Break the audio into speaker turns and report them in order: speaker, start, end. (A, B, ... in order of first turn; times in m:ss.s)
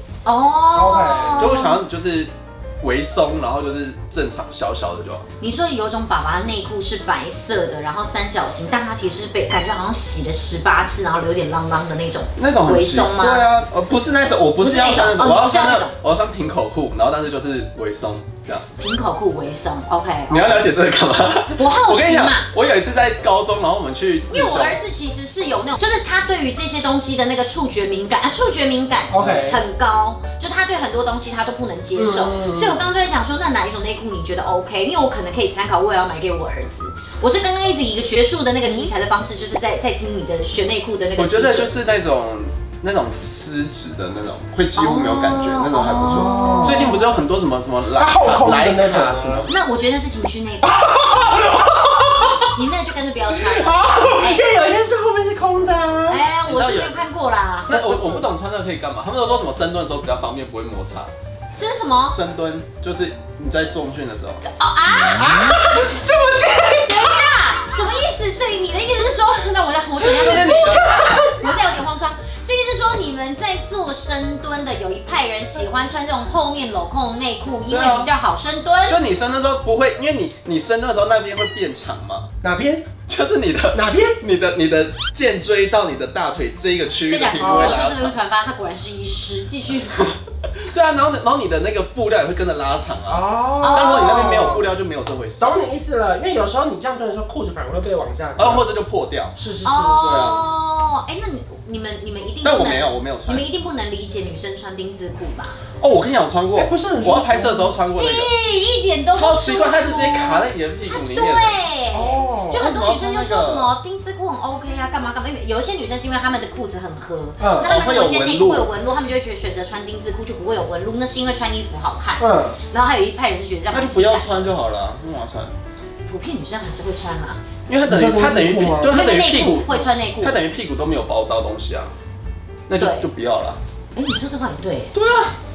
0:00.2-0:01.8 A
0:00.7-0:01.6 B
0:01.4-0:05.2 C
0:05.4-0:13.5 A
0:12.4-0:18.7 C
0:14.6-0:15.9 A
0:18.8-0:20.6 A
0:20.3-0:24.8 C
0:21.6-0:22.5 A
0:24.3-0:41.7 A
0:29.1-0:29.6 B
0:31.9-0:32.8 B
0:41.2-0:49.5 C
0:44.8-0:47.0 A
0:46.2-0:46.9 B
0:48.0-0:49.5 B
0:49.5-0:50.9 A
0:50.6-0:52.5 B
0:52.6-0:54.5 A
0:53.3-0:56.2 B
0:56.1-0:57.8 A
0:56.5-0:57.0 C
0:57.7-1:01.1 C
0:57.7-0:58.2 B
1:01.5-1:02.2 A
1:02.1-1:04.4 C
1:04.4-1:05.6 A
1:05.2-1:07.2 B
1:06.8-1:19.0 A
1:10.1-1:10.9 C
1:10.1-1:11.3 B
1:17.7-1:18.1 C
1:18.9-1:22.3 C
1:22.4-1:22.9 B
1:23.1-1:28.2 C
1:23.7-1:24.2 B
1:27.1-1:29.9 A
1:27.4-1:27.8 B
1:30.0-1:35.6 C
1:33.1-1:34.7 B
1:33.6-1:34.6 A
1:35.4-1:38.7 B
1:38.4-1:39.4 C
1:39.4-1:40.4 B
1:39.6-1:45.6 A
1:40.0-1:40.5 C
1:42.4-1:43.5 C
1:45.8-1:48.3 C
1:46.6-1:47.8 B
1:48.0-2:04.4 A
1:49.1-1:51.6 C
1:51.9-1:52.7 B
1:52.5-1:53.7 C
1:57.4-1:57.8 B
1:57.6-1:58.7 C
2:02.2-2:02.6 B
2:03.7-2:05.5 C
2:06.1-2:07.4 A
2:07.7-2:11.9 C
2:07.8-2:09.0 B
2:08.9-2:10.4 A
2:12.7-2:13.6 C
2:12.8-2:13.1 A
2:14.0-2:14.9 A
2:14.9-2:15.3 C